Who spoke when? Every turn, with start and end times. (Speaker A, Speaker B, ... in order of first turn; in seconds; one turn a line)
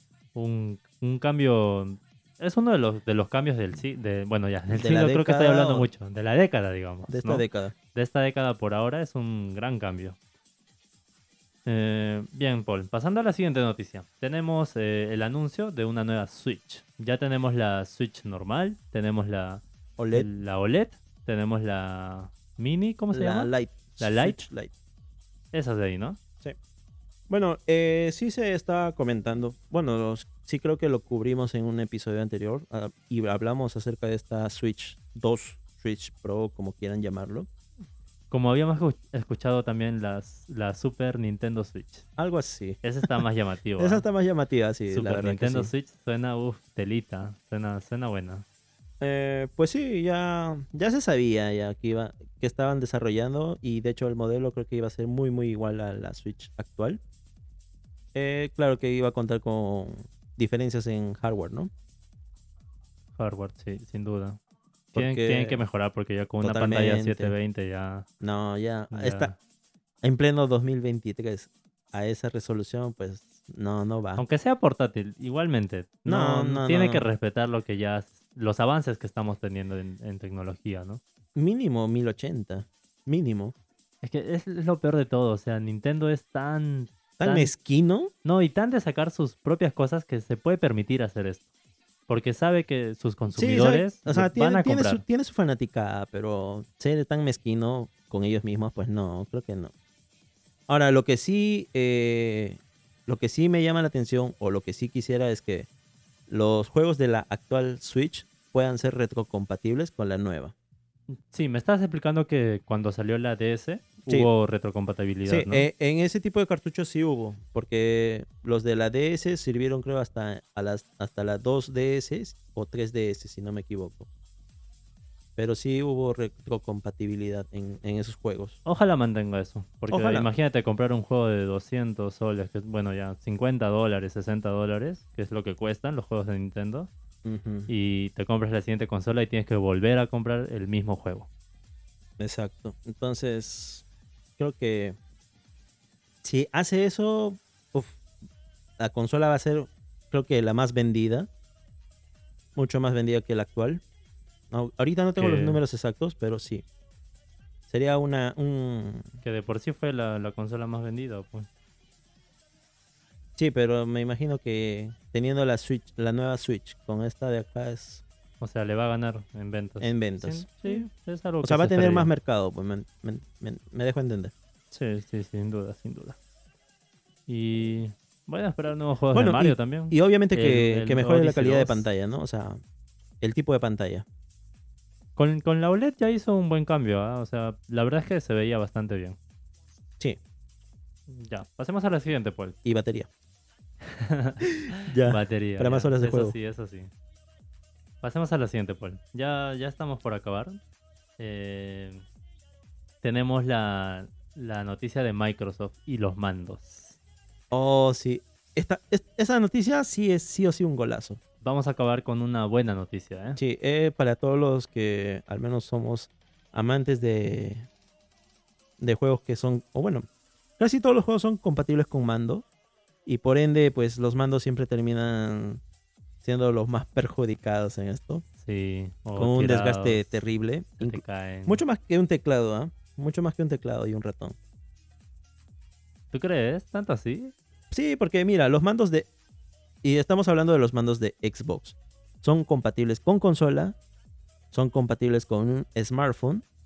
Speaker A: 0.3-10.2
Speaker B: 4.7-5.9
Speaker B: 7.1-7.8
Speaker A: 11.7-24.4
Speaker B: 20.0-20.3
Speaker B: 23.1-24.7
Speaker A: 25.5-26.2
Speaker B: 27.3-37.5
Speaker A: 38.3-42.0
Speaker B: 42.2-43.2
Speaker A: 42.8-44.0
Speaker B: 43.8-45.7
Speaker A: 44.9-48.4
Speaker B: 49.0-57.0
Speaker B: 58.1-61.7
Speaker A: 63.2-64.4
Speaker B: 64.9-65.6
Speaker A: 64.9-68.1
Speaker B: 66.4-67.3
Speaker B: 68.2-69.3
Speaker A: 68.9-69.3
Speaker B: 70.0-74.2
Speaker A: 74.2-81.0
Speaker B: 76.0-77.1
Speaker B: 81.3-83.5
Speaker A: 84.0-87.5
Speaker B: 87.2-88.1
Speaker A: 88.2-91.4
Speaker A: 92.1-95.0
Speaker B: 93.3-99.7
Speaker B: 100.7-105.7
Speaker B: 106.3-110.5
Speaker A: 111.1-115.7
Speaker B: 115.2-124.1
Speaker B: 125.3-128.6
Speaker A: 128.6-136.9
Speaker B: 129.9-130.3
Speaker B: 137.2-137.7
Speaker A: 137.7-141.3
Speaker B: 142.2-143.8
Speaker B: 144.4-145.0
Speaker B: 146.2-148.0
Speaker B: 148.8-151.3
Speaker B: 152.5-153.8
Speaker B: 154.5-156.6
Speaker A: 155.2-155.6
Speaker B: 157.7-159.1
Speaker A: 159.2-161.5
Speaker B: 163.4-168.0
Speaker A: 168.4-172.1
Speaker B: 169.8-170.9
Speaker B: 171.4-174.3
Speaker A: 174.7-176.2
Speaker A: 177.3-181.8
Speaker B: 179.1-182.6
Speaker B: 183.2-184.0
Speaker A: 185.2-189.2
Speaker A: 191.1-192.6
Speaker B: 192.6-193.1
Speaker A: 193.8-196.9
Speaker B: 194.5-196.3
Speaker A: 198.0-200.6
Speaker A: 201.2-202.0
Speaker A: 203.0-206.9
Speaker B: 207.5-211.2
Speaker A: 211.4-213.4
Speaker B: 213.4-217.7
Speaker B: 218.8-220.1
Speaker B: 220.6-222.4
Speaker B: 223.1-225.6
Speaker B: 226.2-228.2
Speaker A: 228.4-230.0
Speaker B: 229.2-234.4
Speaker A: 230.8-231.6
Speaker A: 236.1-237.3
Speaker B: 237.7-239.1
Speaker B: 239.8-243.8
Speaker B: 244.5-246.4